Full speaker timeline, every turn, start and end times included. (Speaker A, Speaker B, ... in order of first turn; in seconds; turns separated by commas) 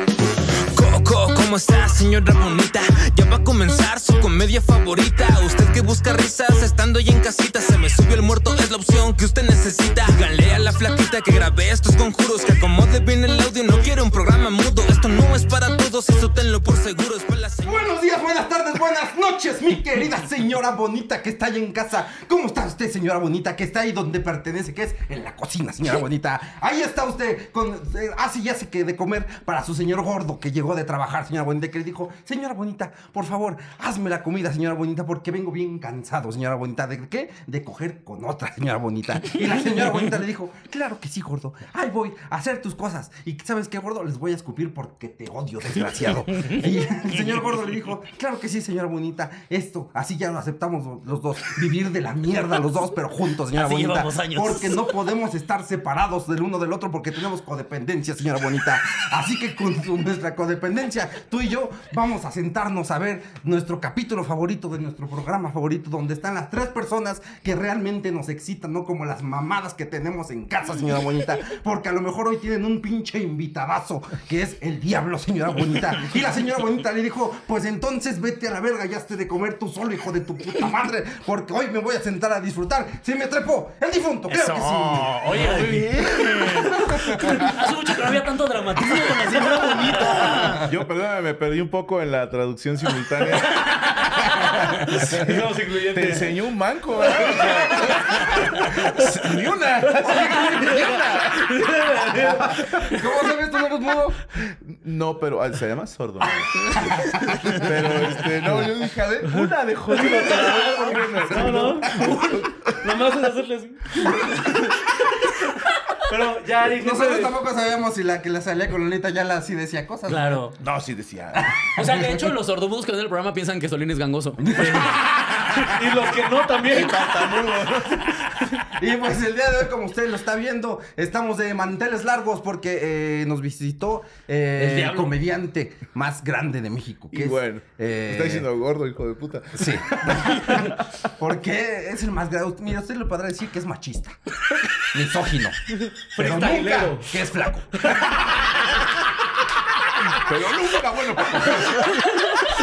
Speaker A: 0.7-17.9, Speaker B: 17.6-87.5, Speaker C: 53.5-54.9, Speaker C: 84.3-90.6, Speaker D: 85.3-86.2, Speaker E: 85.3-85.8, Speaker B: 89.2-90.7, Speaker E: 90.0-90.5, Speaker D: 90.5-102.0, Speaker C: 93.7-95.0, Speaker E: 94.8-96.4, Speaker E: 97.2-97.8, Speaker E: 98.3-99.0, Speaker E: 100.0-103.2, Speaker B: 102.2-104.3, Speaker D: 104.5-112.8, Speaker B: 106.6-108.7, Speaker E: 109.2-114.5, Speaker B: 111.1-112.1, Speaker E: 116.0-117.4, Speaker B: 116.6-120.4, Speaker C: 120.1-120.5, Speaker D: 120.6-121.6, Speaker B: 121.4-122.1, Speaker C: 121.7-125.0, Speaker B: 124.4-125.6, Speaker E: 124.6-128.6, Speaker D: 126.6-128.1, Speaker B: 128.7-138.5, Speaker C: 134.6-135.2, Speaker D: 137.1-140.7, Speaker B: 139.5-144.2, Speaker B: 144.8-145.6, Speaker B: 146.1-148.3, Speaker C: 146.2-146.9, Speaker E: 146.2-147.1, Speaker D: 150.1-152.3